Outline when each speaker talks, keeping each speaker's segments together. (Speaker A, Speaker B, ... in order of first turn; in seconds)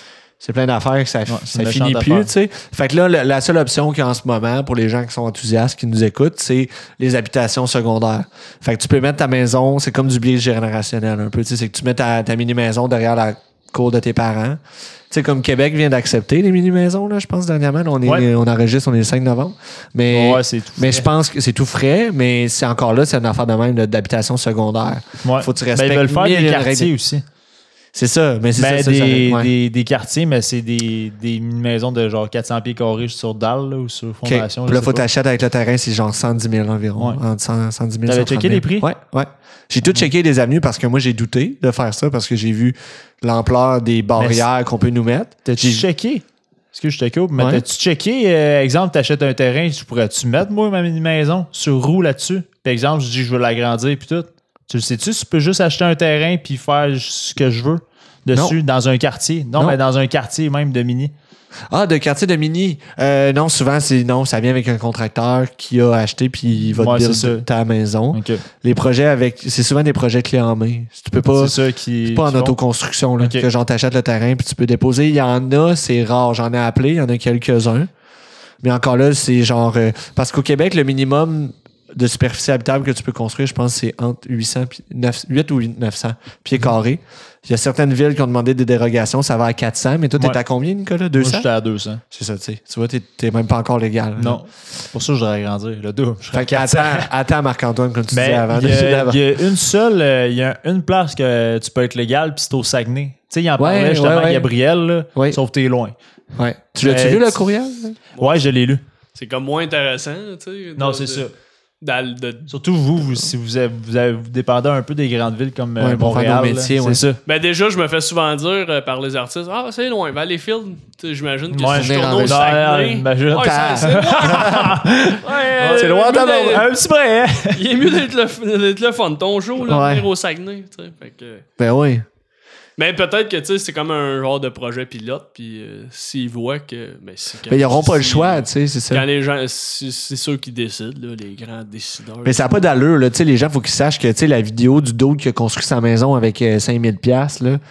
Speaker A: 0.4-14.6, 15.1-26.9, 27.9-29.5, 34.2-45.8, 47.4-47.6, 61.7-71.5, 72.0-77.9, 78.6-91.5, 92.1-94.4, 96.3-99.2, 103.6-104.5, 106.3-108.0, 115.8-117.0, 121.7-122.6, 123.3-124.7, 125.6-126.6, 129.6-130.1, 131.6-132.0, 137.5-139.0, 142.2-147.6
Speaker B: 1.3-2.3, 20.1-21.1, 25.2-27.2, 28.6-35.0, 38.0-38.9, 44.2-44.5, 45.4-61.1, 66.8-67.5, 68.1-68.4, 71.2-72.5, 73.2-73.5, 91.1-92.0, 94.2-97.1, 98.1-105.9, 106.8-107.4, 108.2-108.8, 110.8-111.3, 112.5-117.2, 121.5-127.6
Speaker C: 108.2-108.4, 109.1-111.2, 111.8-112.5, 117.2-124.7, 125.2-126.7, 127.5-131.4, 132.8-142.7